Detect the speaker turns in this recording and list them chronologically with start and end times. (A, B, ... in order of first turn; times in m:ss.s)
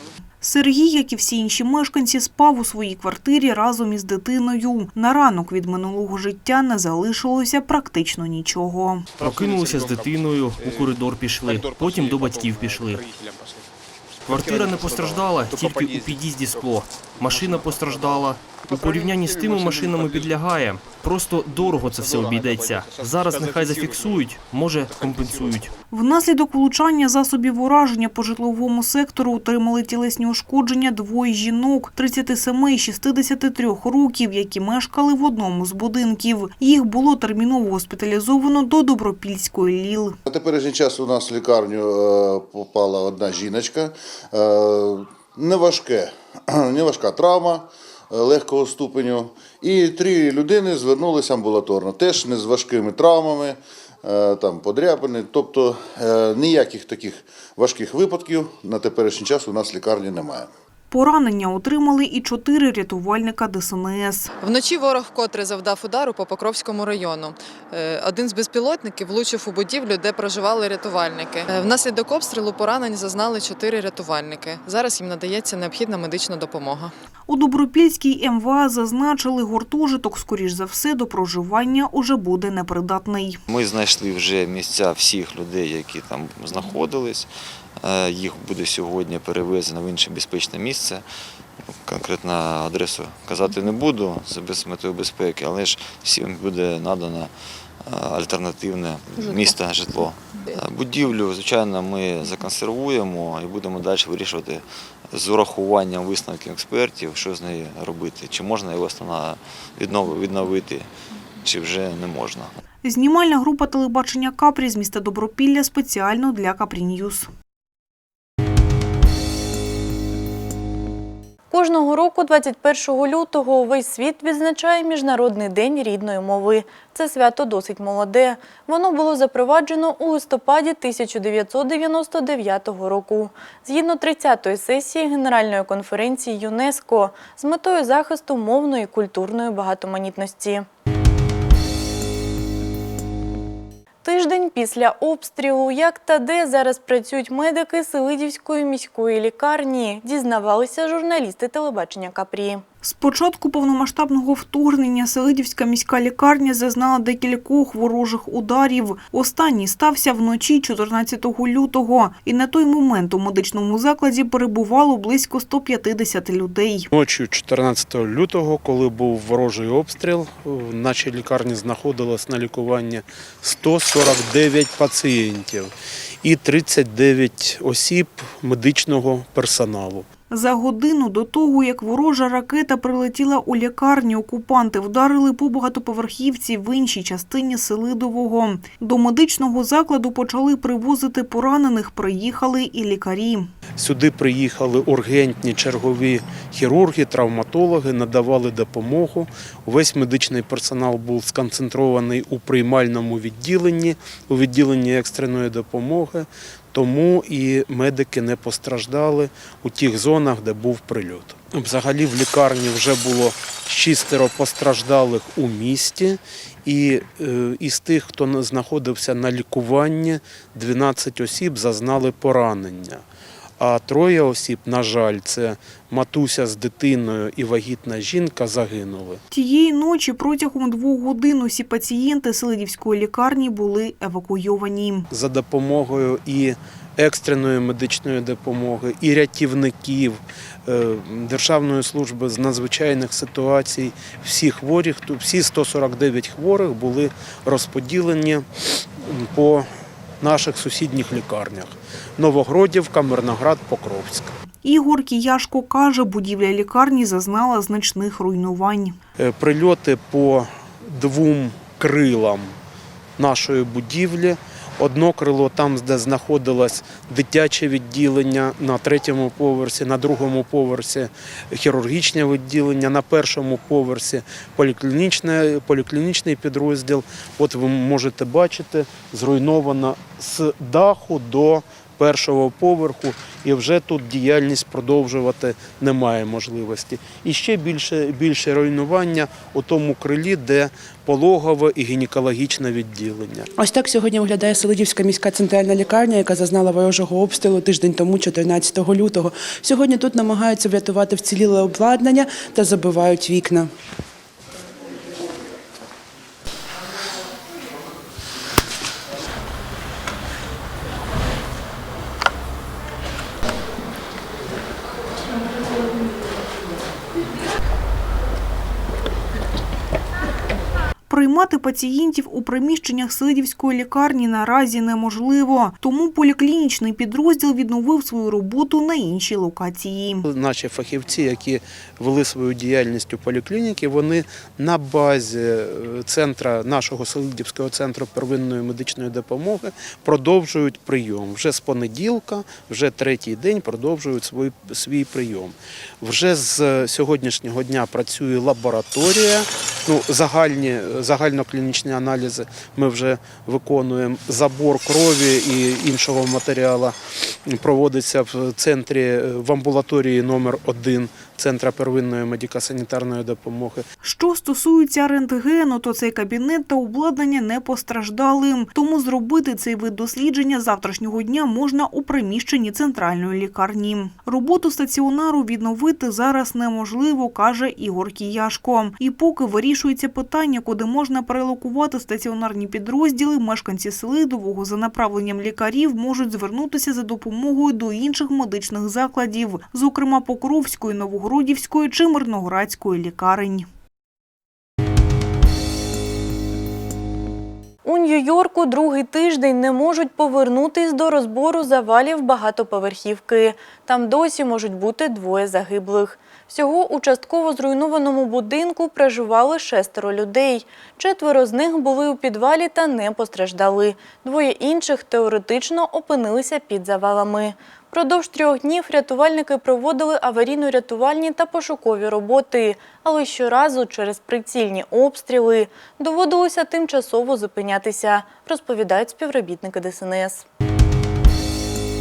0:00.4-0:09.1 A
0:09.2-0:13.1 B
0:14.3-0:25.7 B
0:25.9-0:40.2 A
0:40.3-1:00.5 C
1:00.9-1:04.3 A
1:04.4-1:16.9 D
1:17.3-1:23.4 A
1:23.5-1:27.3 E
1:27.8-1:31.0 E
1:31.8-1:37.3 E
1:37.8-1:50.9 E
1:51.4-1:52.5 E
1:52.8-1:57.3 A
2:01.5-2:20.6 F
2:24.0-2:32.6 F
2:32.8-2:46.9 A
2:46.9-3:00.1 G
3:00.3-3:13.5 A
3:13.8-3:43.0 G
3:43.6-3:49.2 G
3:49.3-3:55.1 A
3:55.1-4:08.4 G
4:09.0-4:09.7 G
4:10.2-4:14.3 G
4:14.6-4:19.0 A
4:19.2-4:22.6 G
4:23.2-4:53.5 G
4:53.6-5:03.7 H
5:21.1-5:30.3 A
5:30.2-6:03.8 G
6:04.0-6:33.7 A
6:37.8-7:10.4 F